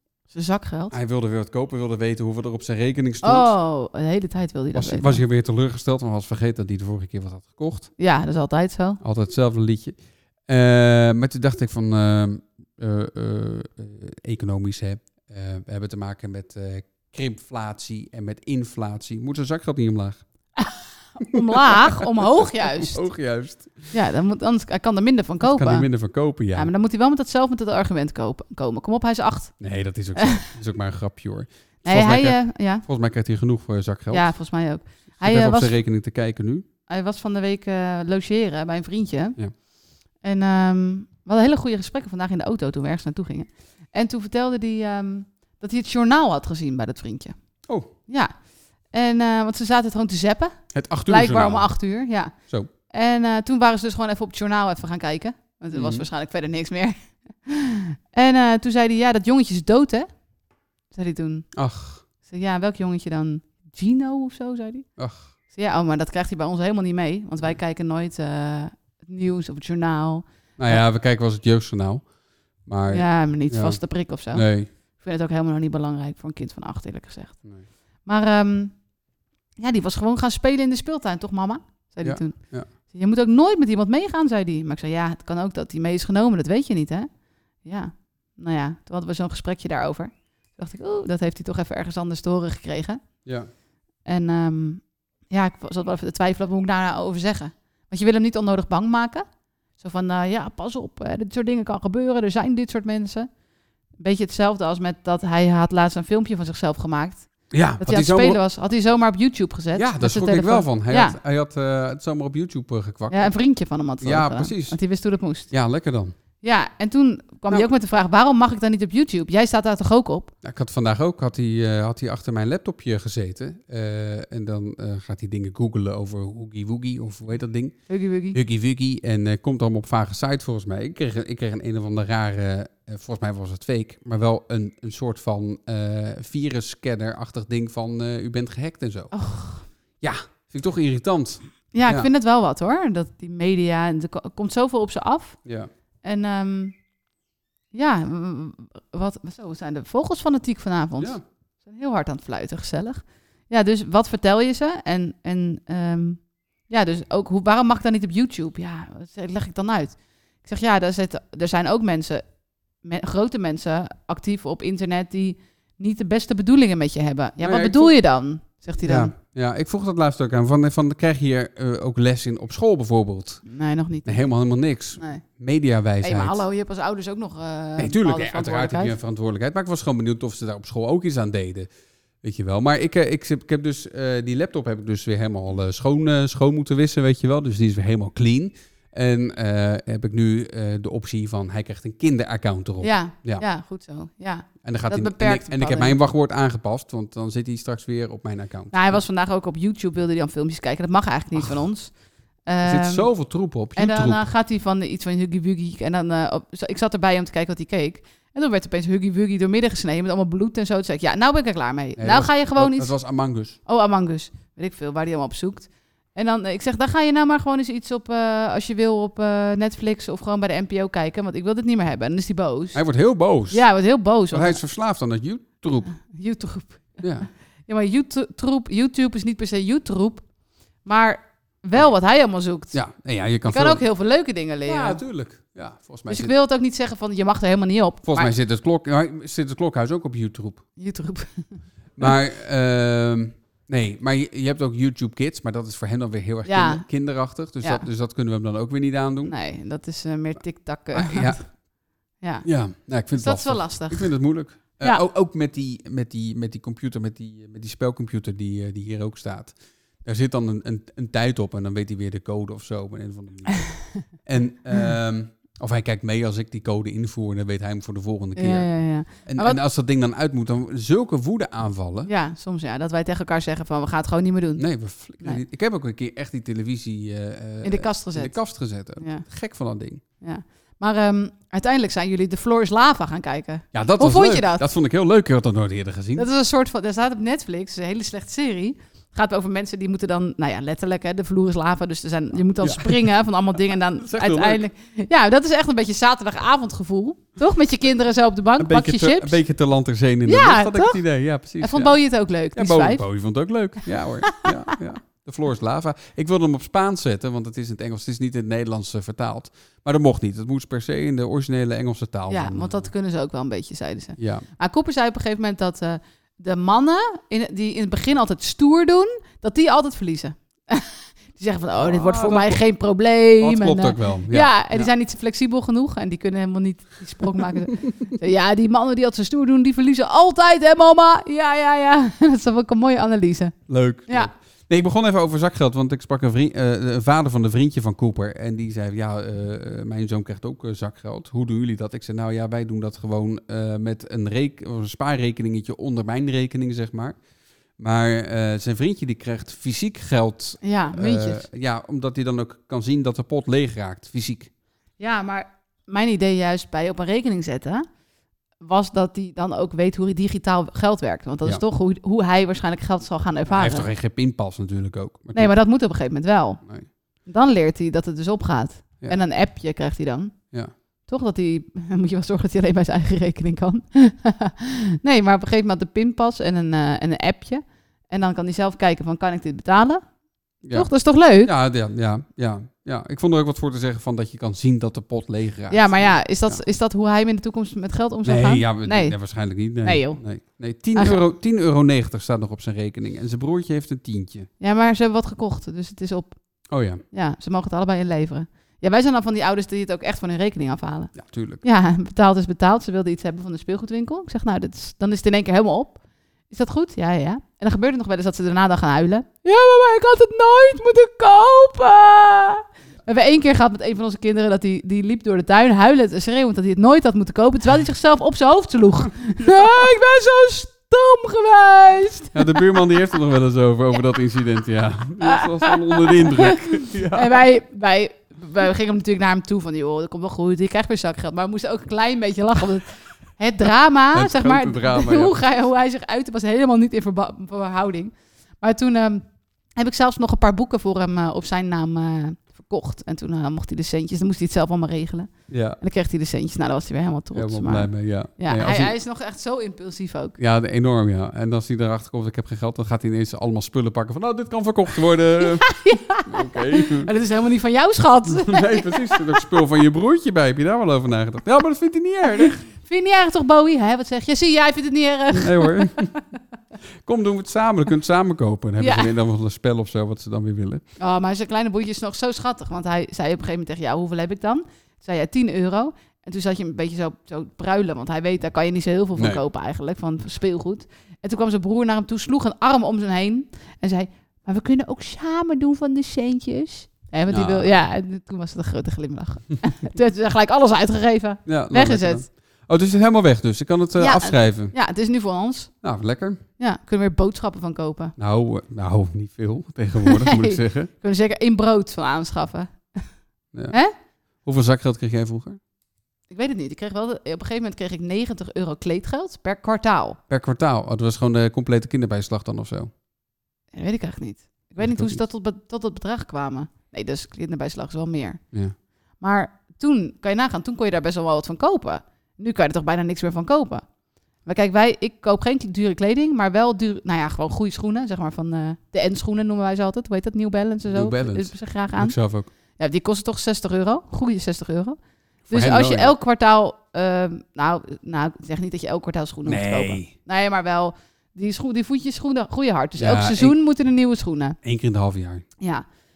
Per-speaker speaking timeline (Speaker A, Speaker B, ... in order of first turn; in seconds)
Speaker A: 0.3-0.9, 3.2-5.2, 8.0-9.0, 20.6-23.1, 23.9-25.9, 26.5-29.6, 30.2-30.4, 31.9-32.9, 34.1-35.8, 36.9-39.4, 40.2-47.4, 48.1-48.3, 48.9-52.4, 52.9-60.1, 60.9-61.5, 62.2-64.9, 65.5-70.8, 72.9-77.5, 78.0-78.8, 79.6-87.1, 87.6-93.0, 94.0-99.2, 99.8-103.3, 104.0-111.2, 113.1-115.5, 116.4-120.3, 127.9-128.4, 139.1-139.7, 141.7-145.4, 146.0-146.8, 147.7-162.2, 162.8-169.1, 173.4-174.2, 175.0-175.2, 176.0-178.9, 192.8-196.0, 198.7-203.1, 203.8-212.9, 213.7-222.8, 223.5-224.6, 225.9-227.0, 227.7-230.3, 230.8-232.8, 233.5-235.0, 236.1-238.3, 240.8-242.2, 246.4-246.8, 247.6-247.9, 249.2-251.5, 252.2-252.4, 253.1-254.1, 254.8-255.0, 268.4-269.6, 272.1-274.6, 277.6-278.4, 279.0-279.3, 280.2-284.6, 286.2-299.4, 300.3-301.0, 301.6-303.0, 304.3-304.8, 312.3-334.3, 350.6-351.4, 355.0-357.9, 358.6-363.9, 365.3-366.6, 367.2-370.4, 371.1-380.0, 380.7-381.5, 385.7-389.2, 389.8-390.2, 394.6-396.4, 397.1-422.6, 425.2-450.4, 455.4-459.5, 462.4-465.9, 468.8-469.1, 471.0-492.2, 494.0-495.7, 496.6-498.1, 500.0-503.1, 506.3-510.2, 513.7-518.4, 519.2-523.9, 524.4-532.1, 532.8-535.0, 535.5-544.6, 545.6-545.9
Speaker B: 0.9-3.5, 4.7-7.9, 9.0-20.2, 22.2-23.9, 25.4-26.7, 29.6-34.3, 35.2-36.7, 50.7-51.7, 55.7-56.0, 61.5-62.0, 65.0-65.3, 70.6-72.1, 72.6-73.8, 74.3-74.7, 82.0-82.7, 107.5-108.4, 109.8-113.3, 114.0-114.8, 115.5-116.2, 120.4-127.8, 128.3-139.1, 140.0-142.1, 167.4-167.9, 168.8-173.4, 174.1-176.4, 177.8-181.7, 182.2-193.4, 194.6-199.0, 202.6-204.2, 212.0-213.6, 222.7-223.6, 224.3-225.9, 227.0-227.3, 232.7-233.8, 234.7-236.3, 238.1-240.6, 242.0-249.3, 250.9-251.4, 252.4-272.1, 274.6-280.0, 283.7-286.3, 292.6-293.1, 294.0-294.6, 298.6-302.0, 302.6-312.9, 314.2-314.5, 321.8-322.6, 323.4-324.9, 333.7-347.2, 347.8-354.5, 363.5-365.6, 380.6-380.9, 381.4-386.6, 388.2-394.5, 396.7-397.0, 401.1-401.6, 419.4-419.9, 422.3-427.4, 434.1-435.4, 445.5-445.8, 447.3-448.9, 450.4-457.1, 458.3-462.6, 465.3-466.1, 467.0-470.8, 479.2-479.4, 487.3-487.7, 491.5-494.7, 495.8-496.4, 498.2-500.9, 504.4-505.6, 510.3-512.9, 514.8-515.2, 530.9-532.5, 535.5-536.1, 539.5-540.1, 543.0-543.6, 544.6-545.5